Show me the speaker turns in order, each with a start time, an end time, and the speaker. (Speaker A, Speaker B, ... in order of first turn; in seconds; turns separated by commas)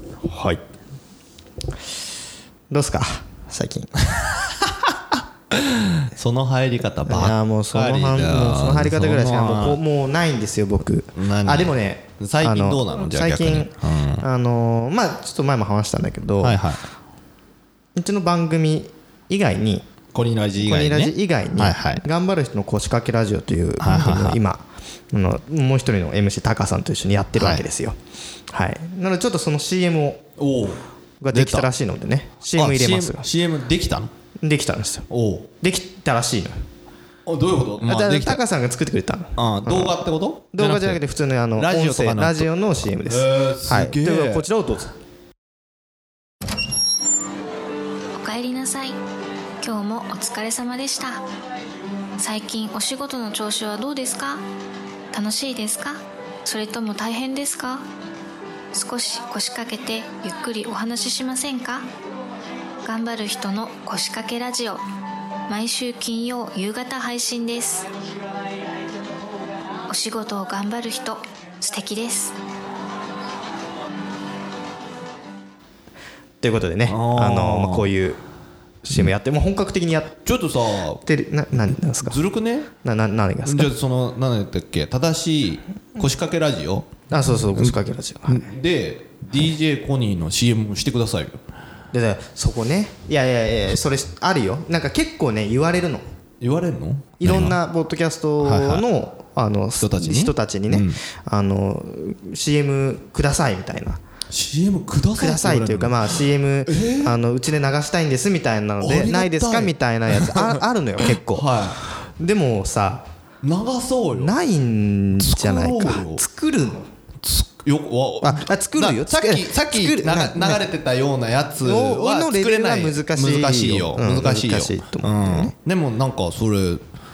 Speaker A: 0.2-0.6, Speaker A: 2.7-3.9, Speaker B: 4.0-9.8, Speaker A: 7.1-16.6, Speaker B: 11.2-14.2, Speaker B: 16.4-16.8, Speaker A: 18.0-19.9, Speaker B: 20.1-22.0, Speaker A: 20.6-27.9, Speaker B: 23.8-24.4, Speaker B: 27.4-27.7, Speaker A: 28.5-30.3, Speaker B: 30.4-31.7, Speaker A: 31.2-33.3, Speaker B: 32.5-34.1, Speaker A: 34.4-35.1, Speaker B: 35.1-35.5, Speaker A: 35.6-36.7, Speaker B: 37.3-38.4, Speaker A: 37.8-40.0, Speaker B: 39.4-41.0, Speaker A: 40.5-44.9, Speaker B: 41.6-42.5, Speaker B: 43.1-44.5, Speaker C: 48.1-49.0, Speaker C: 49.6-51.2, Speaker C: 52.2-54.4, Speaker C: 55.1-57.9, Speaker C: 58.7-61.9, Speaker C: 62.9-64.8, Speaker C: 65.5-67.9, Speaker C: 69.9-72.3, Speaker A: 76.4-78.2, Speaker B: 76.9-77.9, Speaker A: 78.8-80.2, Speaker B: 80.2-81.0, Speaker A: 81.0-82.2, Speaker B: 82.0-82.7, Speaker A: 82.8-83.7, Speaker B: 83.5-86.9, Speaker A: 87.1-88.5, Speaker B: 87.5-91.4, Speaker A: 91.9-96.0, Speaker B: 96.4-97.6, Speaker A: 97.2-104.0, Speaker B: 98.4-98.9, Speaker B: 99.8-101.0, Speaker B: 104.3-107.2, Speaker A: 105.2-113.1, Speaker B: 108.8-111.8, Speaker B: 113.4-114.3, Speaker A: 114.1-116.9, Speaker B: 115.2-116.2, Speaker B: 117.2-126.8, Speaker A: 118.2-120.6, Speaker A: 121.6-125.5